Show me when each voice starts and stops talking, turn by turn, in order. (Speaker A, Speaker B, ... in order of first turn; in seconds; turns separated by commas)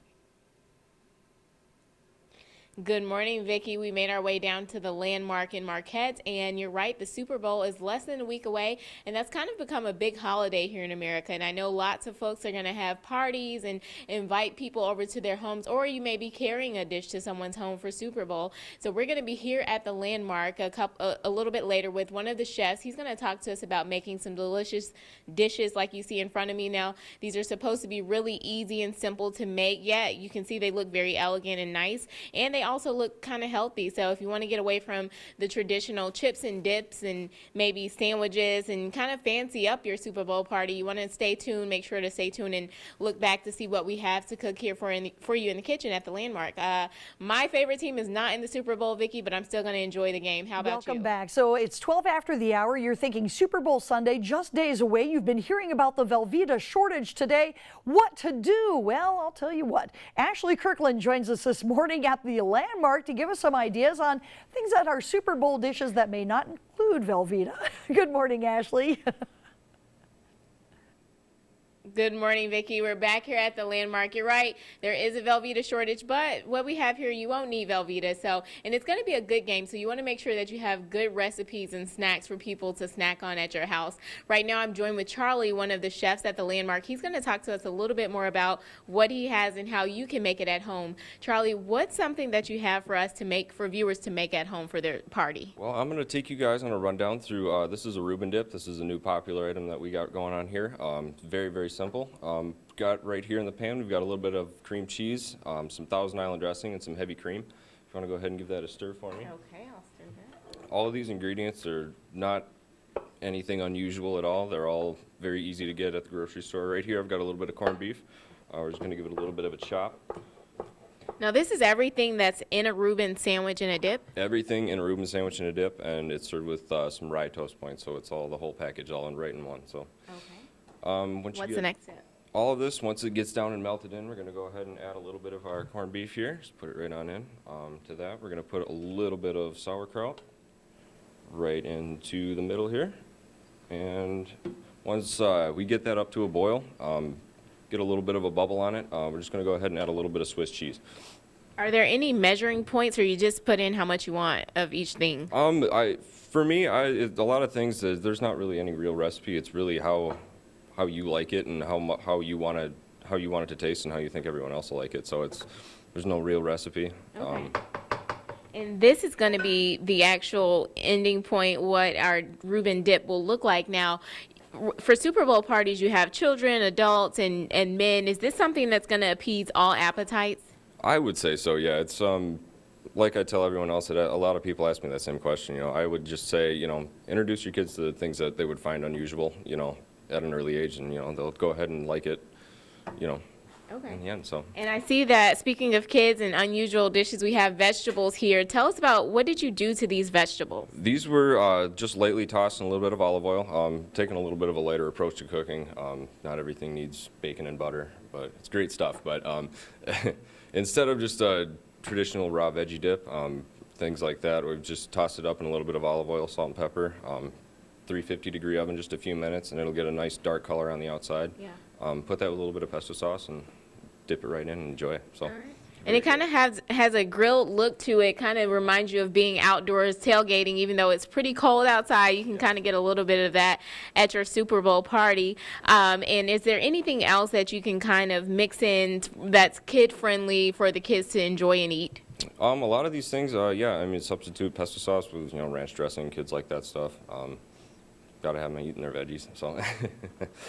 Speaker A: 2.8-51.1, Speaker B: 50.6-69.0, Speaker A: 71.9-95.5, Speaker C: 95.6-109.3, Speaker A: 109.2-110.3, Speaker C: 110.7-112.5, Speaker C: 113.2-120.0, Speaker A: 121.2-124.0, Speaker C: 124.1-129.9, Speaker A: 130.1-130.4, Speaker C: 130.8-131.7, Speaker A: 131.3-132.0, Speaker C: 132.3-140.2, Speaker C: 141.3-143.0, Speaker C: 143.7-150.8, Speaker A: 151.6-155.3, Speaker C: 155.3-160.2, Speaker C: 160.7-167.5, Speaker A: 167.1-167.5, Speaker A: 168.5-174.0, Speaker A: 174.5-180.4, Speaker C: 180.8-182.4, Speaker C: 182.9-192.3, Speaker C: 192.9-193.2, Speaker A: 193.7-194.0, Speaker C: 193.9-194.5, Speaker A: 194.5-200.7, Speaker C: 200.7-217.3, Speaker C: 217.9-223.5, Speaker C: 224.1-225.3, Speaker A: 225.2-242.0, Speaker C: 225.8-226.2, Speaker C: 242.4-247.4, Speaker C: 248.2-250.3